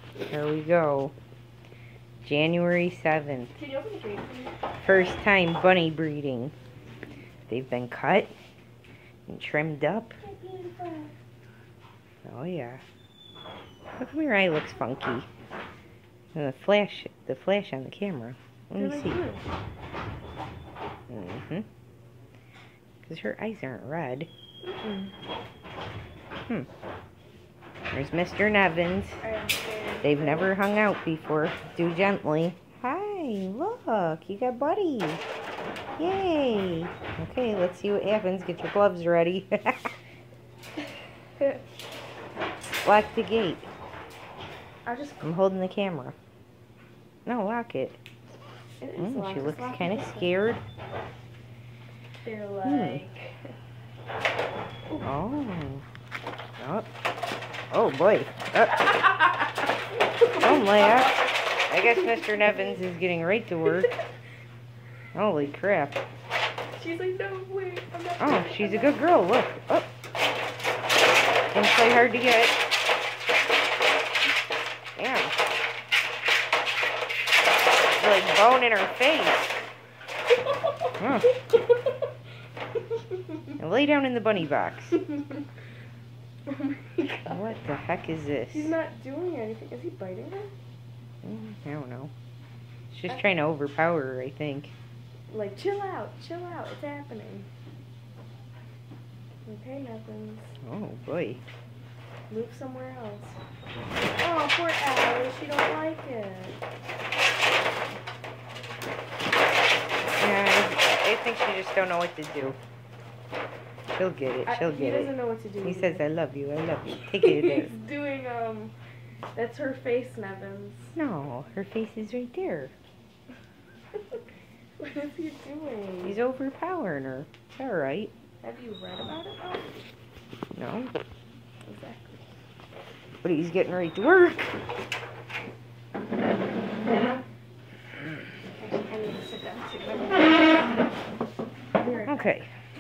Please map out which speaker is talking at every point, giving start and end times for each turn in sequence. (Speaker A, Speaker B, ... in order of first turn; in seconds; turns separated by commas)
Speaker A: 0.3-1.1, Speaker A: 2.2-3.5, Speaker B: 3.6-4.6, Speaker A: 4.8-6.5, Speaker A: 7.5-8.3, Speaker A: 9.3-10.2, Speaker B: 10.2-11.1, Speaker A: 12.2-12.8, Speaker A: 14.0-15.3, Speaker A: 16.3-19.2, Speaker B: 18.8-19.4, Speaker A: 21.1-21.7, Speaker A: 23.0-24.3, Speaker B: 24.8-25.1, Speaker A: 27.9-29.2, Speaker B: 29.2-30.5, Speaker A: 30.0-35.2, Speaker A: 36.0-39.9, Speaker A: 42.8-43.7, Speaker B: 44.9-45.3, Speaker A: 45.2-46.2, Speaker A: 47.3-48.0, Speaker B: 48.8-50.4, Speaker A: 49.0-50.6, Speaker B: 52.2-53.4, Speaker A: 52.6-53.0, Speaker A: 55.0-55.9, Speaker A: 56.6-56.9, Speaker A: 57.7-59.0, Speaker B: 60.0-62.8, Speaker A: 60.4-63.9, Speaker B: 63.7-63.9, Speaker A: 65.1-66.0, Speaker B: 66.7-69.0, Speaker A: 68.2-69.9, Speaker A: 71.5-72.6, Speaker A: 75.0-75.3, Speaker A: 78.0-79.5, Speaker A: 81.0-81.3, Speaker B: 83.1-83.4, Speaker A: 83.6-85.0, Speaker B: 85.0-85.3, Speaker B: 86.5-87.5, Speaker A: 87.3-88.8, Speaker B: 88.5-90.5, Speaker A: 91.2-92.1, Speaker A: 92.9-94.8, Speaker B: 95.3-97.5, Speaker B: 99.5-100.6, Speaker A: 100.6-101.4, Speaker B: 102.3-103.4, Speaker B: 104.2-106.6, Speaker A: 110.2-112.6, Speaker A: 113.9-117.8, Speaker B: 114.5-116.0, Speaker B: 117.1-118.8, Speaker B: 119.3-121.0, Speaker A: 121.0-122.7, Speaker B: 124.8-126.2, Speaker A: 126.0-128.1, Speaker B: 128.4-129.7, Speaker A: 130.6-130.9, Speaker B: 131.7-132.2, Speaker A: 133.2-134.5, Speaker B: 136.9-137.2, Speaker B: 138.6-140.4, Speaker B: 141.8-142.4, Speaker A: 141.9-142.5